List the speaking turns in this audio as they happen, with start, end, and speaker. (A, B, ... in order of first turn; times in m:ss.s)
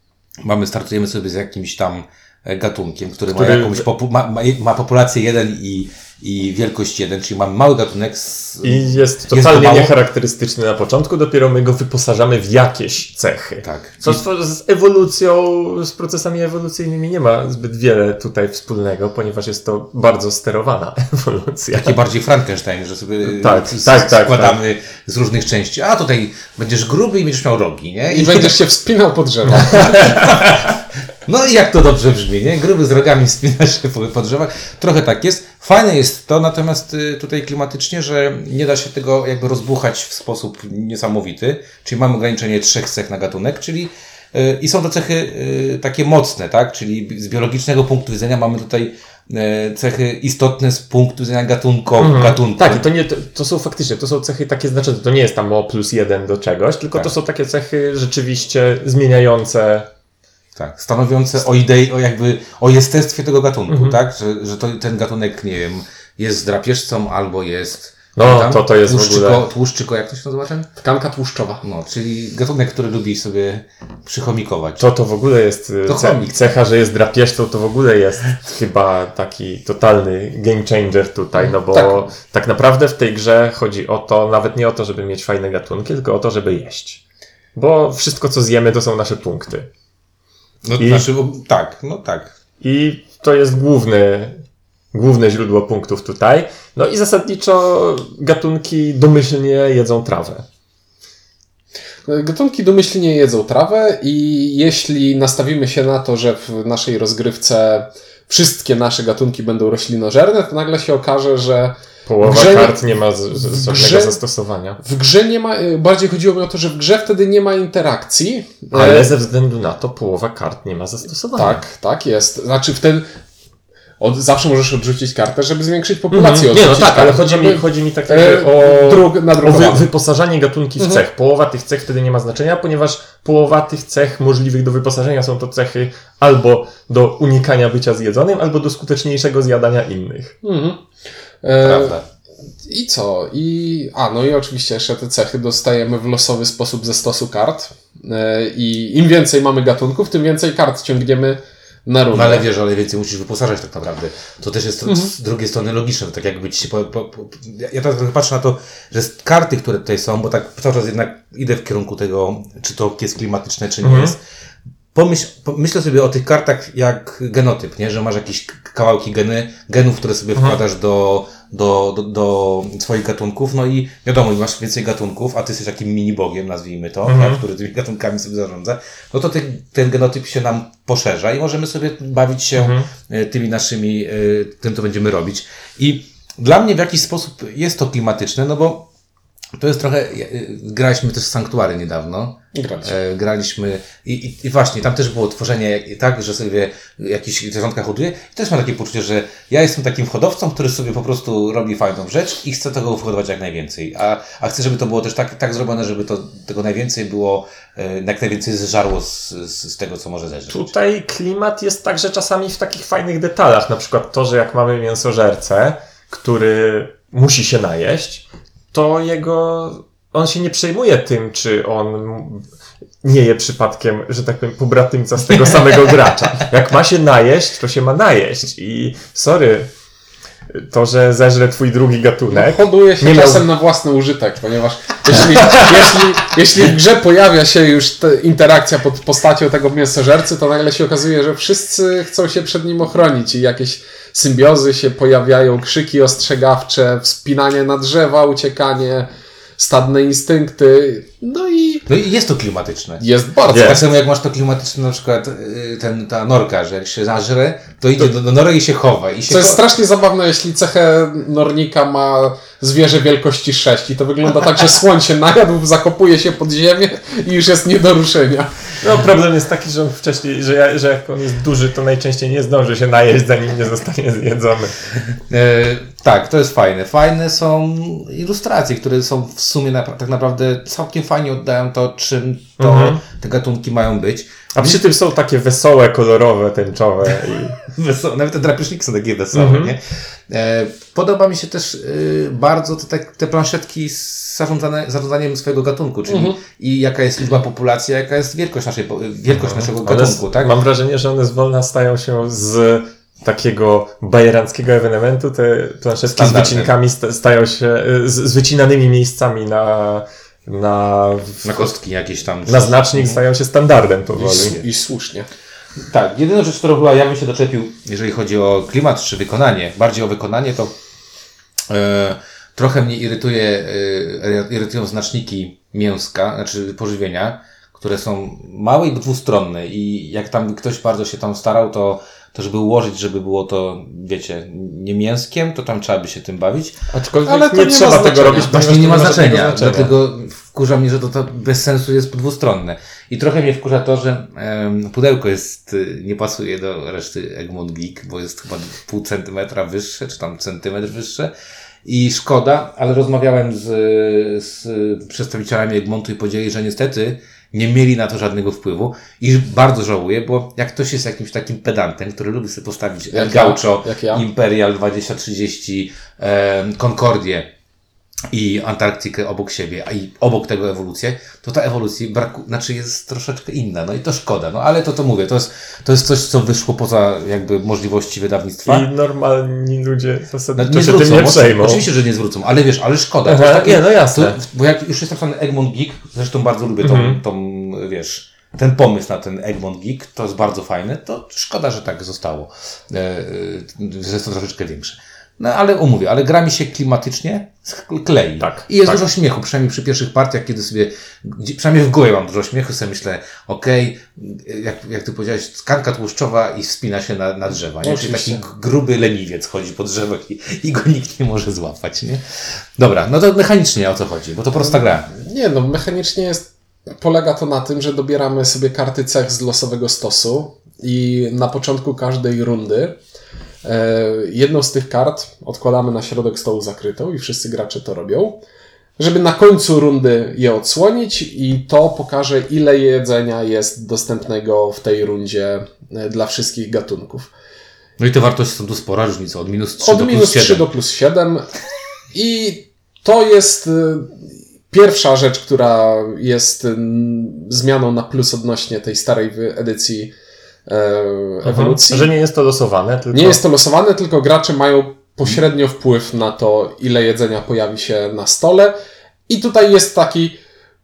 0:00.4-0:09.9 A
0:03.3-0:03.8 B
0:08.6-0:22.0 B
0:13.6-0:14.2 A
0:21.7-0:28.5 A
0:23.3-0:24.6 B
0:28.1-0:30.2 C
0:29.6-0:52.8 A
0:29.7-0:29.9 B
0:52.0-0:59.9 B
1:00.6-1:10.7 A
1:03.7-1:04.0 B
1:08.2-1:09.4 B
1:10.8-1:11.6 C
1:11.6-1:14.9 A
1:14.8-1:27.0 B
1:15.9-1:16.4 A
1:21.4-1:22.0 C
1:27.6-1:29.7 B
1:30.6-1:32.3 A
1:30.8-1:31.1 B
1:32.6-1:34.4 B
1:34.9-1:40.5 B
1:42.0-1:54.2 C
1:52.1-1:54.8 B
1:54.8-1:59.1 C
1:58.7-2:01.6 B
2:01.4-2:03.1 C
2:04.0-2:09.9 C
2:06.1-2:20.4 B
2:10.8-2:11.0 C
2:20.4-2:20.8 C
2:21.4-2:22.0 C
2:21.6-2:22.0 A
2:22.7-2:32.4 C
2:32.1-2:44.2 A
2:34.9-2:35.1 C
2:43.8-2:44.2 B
2:44.9-3:08.9 A
2:57.0-2:57.4 B
3:02.6-3:02.9 B
3:09.6-3:30.7 A
3:12.6-3:12.9 C
3:30.5-3:42.5 B
3:43.0-3:49.7 B
3:50.5-3:53.4 B
3:52.3-4:11.8 C
4:11.9-4:19.6 A
4:13.0-4:13.8 C
4:13.5-4:13.8 B
4:19.3-4:28.7 C
4:28.8-4:34.8 B
4:35.3-4:44.8 A
4:42.6-4:43.0 B
4:44.5-4:47.6 B
4:47.7-5:00.5 A
4:49.3-4:49.7 B
4:56.1-4:56.4 C
4:59.3-5:11.5 B
5:06.1-5:06.7 A
5:11.4-5:13.2 A
5:12.5-5:14.6 B
5:14.2-5:15.3 C
5:14.4-5:14.6 A
5:15.9-5:20.7 A
5:21.7-5:36.8 A
5:36.9-5:39.9 B
5:37.3-5:38.6 C
5:38.4-5:51.3 A
5:51.8-6:07.5 A
6:03.1-6:04.2 C
6:08.3-6:18.9 A
6:18.7-6:21.9 B
6:20.6-6:52.2 A
6:23.2-6:24.4 B
6:26.8-6:27.2 B
6:38.4-6:39.0 B
6:47.8-6:48.4 B
6:52.8-6:55.1 A
6:55.1-7:03.0 C
7:03.6-7:08.4 C
7:09.0-7:17.3 C
7:18.0-7:20.6 A
7:19.8-7:21.5 C
7:22.1-7:30.1 C
7:30.7-7:32.1 C
7:31.4-7:33.4 B
7:33.1-7:38.7 C
7:39.3-7:40.4 C